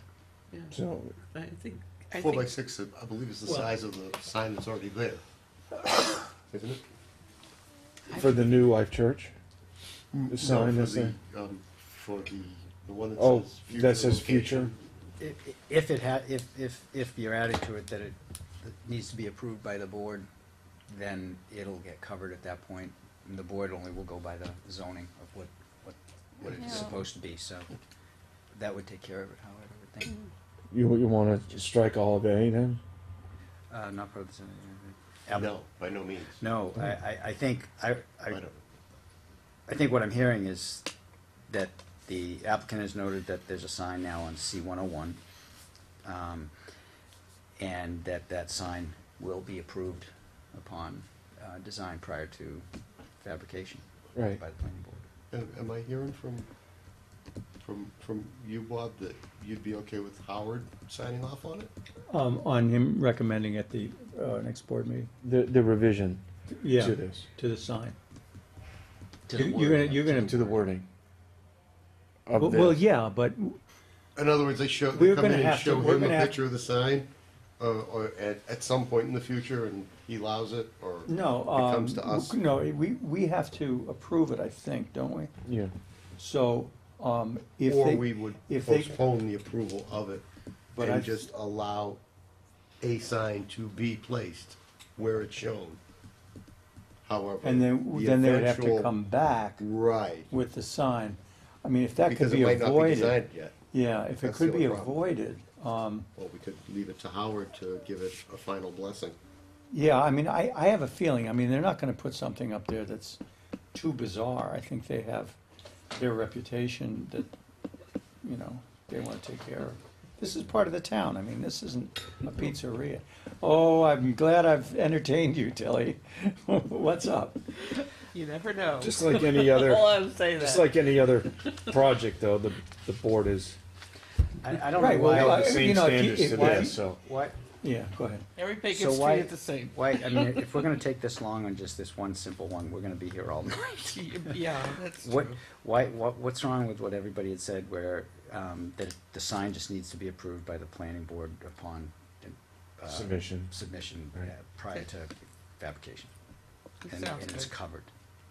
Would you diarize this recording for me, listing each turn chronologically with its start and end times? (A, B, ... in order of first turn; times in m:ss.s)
0:00.7-0:01.1 A
0:01.3-0:02.5 B
0:02.2-0:05.2 C
0:06.5-0:06.8 C
0:08.1-0:08.7 B
0:08.1-0:09.3 A
0:10.2-0:14.8 C
0:10.3-0:11.2 A
0:13.2-0:14.7 A
0:15.2-0:20.2 D
0:20.9-0:27.7 D
0:26.4-0:27.0 C
0:26.6-0:26.9 B
0:28.5-0:30.2 D
0:30.7-0:32.8 A
0:33.7-0:35.6 D
0:35.3-0:36.4 C
0:36.4-0:38.4 D
0:38.3-0:38.6 C
0:39.7-0:40.9 D
0:41.5-0:45.2 D
0:46.0-0:46.5 D
0:47.6-0:52.6 D
0:53.2-0:55.0 D
0:54.1-0:54.4 A
0:55.3-0:56.5 C
0:57.6-1:01.7 C
1:02.1-1:05.1 E
1:05.2-1:06.2 A
1:06.5-1:08.0 E
1:06.7-1:07.2 A
1:09.3-1:10.6 D
1:09.3-1:10.3 E
1:10.2-1:10.9 A
1:12.3-1:12.8 A
1:12.4-1:13.6 E
1:14.1-1:22.4 C
1:14.9-1:16.3 E
1:21.0-1:25.3 E
1:25.4-1:25.7 A
1:26.2-1:29.0 E
1:27.6-1:30.2 C
1:30.7-1:31.3 E
1:30.8-1:32.0 C
1:32.8-1:35.8 C
1:37.0-1:38.9 C
1:37.4-1:39.6 E
1:39.6-1:40.3 C
1:40.3-1:46.1 E
1:42.0-1:43.5 C
1:44.2-1:45.0 C
1:46.1-1:49.2 C
1:49.7-1:53.2 E
1:53.7-1:55.4 E
1:55.9-1:57.3 E
1:58.2-2:07.4 E
2:07.6-2:10.7 B
2:08.8-2:13.6 A
2:14.4-2:15.7 D
2:14.8-2:16.8 E
2:15.1-2:17.0 A
2:16.5-2:17.4 D
2:17.6-2:18.2 E
2:18.4-2:20.7 B
2:18.7-2:24.0 D
2:23.5-2:25.4 B
2:25.0-2:36.1 D
2:32.9-2:33.5 A
2:36.8-2:37.5 B
2:36.9-2:37.9 D